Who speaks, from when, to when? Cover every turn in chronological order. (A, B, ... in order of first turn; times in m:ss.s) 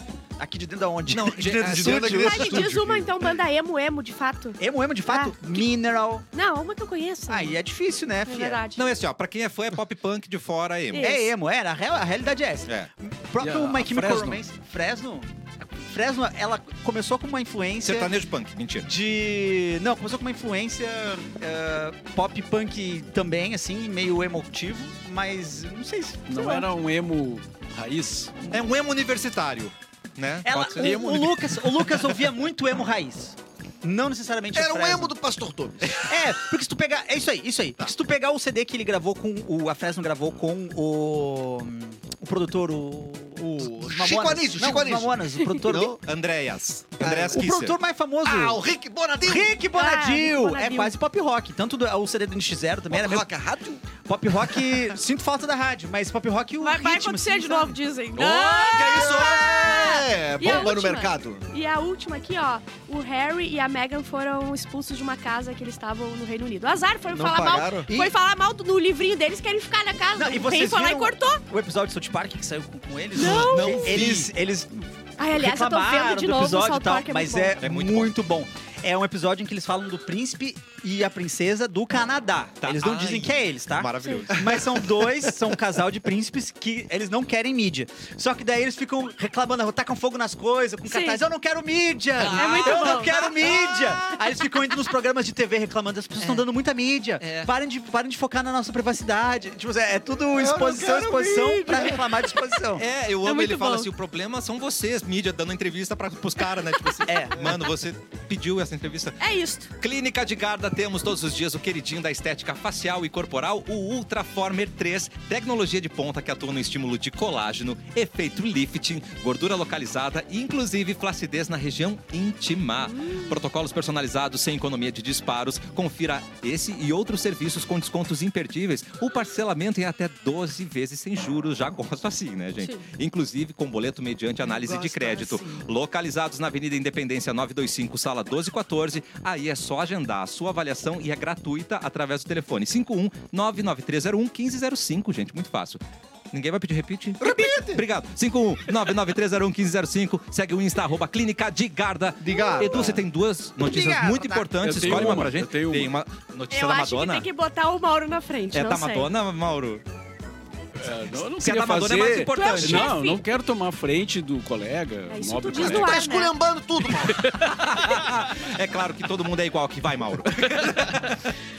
0:00.4-0:02.7 A
0:01.1-0:02.7 B
0:01.5-0:03.2 C
0:02.2-0:05.7 D
0:04.6-0:06.2 A
0:06.3-0:07.6 D
0:07.3-0:08.6 A
0:08.3-0:08.8 D
0:08.8-0:11.1 B
0:10.9-0:11.3 D
0:11.0-0:18.2 A
0:13.4-0:14.4 E
0:17.8-0:18.9 B
0:18.8-0:26.3 A
0:26.3-0:28.3 E
0:26.4-0:26.6 D
0:28.5-0:31.0 B
0:30.4-0:35.1 A
0:30.8-0:31.5 E
0:34.5-0:36.2 C
0:35.9-0:46.0 A
0:43.4-0:46.0 C
0:46.0-0:47.8 B
0:47.0-0:47.5 C
0:47.3-0:48.6 A
0:48.2-0:49.6 C
0:49.2-0:53.3 A
0:49.7-0:50.9 D
0:52.9-0:53.9 C
0:54.0-0:57.8 A
0:54.5-0:54.9 C
0:56.6-1:11.4 D
0:58.2-0:59.4 B
0:58.7-1:01.4 C
1:07.1-1:07.9 C
1:10.2-1:42.8 A
1:13.1-1:14.1 D
1:13.2-1:14.3 B
1:15.2-1:17.6 D
1:17.6-1:18.1 B
1:22.6-1:24.7 B
1:30.9-1:31.2 D
1:32.2-1:34.2 B
1:32.2-1:33.3 D
1:36.2-1:36.5 B
1:37.2-1:37.5 B
1:40.3-1:42.4 C
1:42.8-1:49.2 B
1:43.2-1:43.9 D
1:47.1-1:47.5 A
1:49.2-1:49.7 D
1:49.8-2:25.8 B
2:02.8-2:03.4 D
2:12.6-2:12.9 D
2:14.5-2:15.5 A
2:26.3-2:37.3 B
2:27.2-2:27.9 C
2:32.2-2:33.0 C
2:32.4-2:32.8 D
2:33.6-2:35.3 A
2:34.6-2:35.9 E
2:36.5-2:39.1 D
2:38.5-2:39.8 B
2:40.8-2:46.0 E
2:41.2-2:42.9 B
2:42.3-2:43.3 D
2:45.1-2:46.4 D
2:45.6-2:47.3 C
2:46.9-2:48.1 E
2:47.5-2:51.2 B
2:50.3-2:51.2 E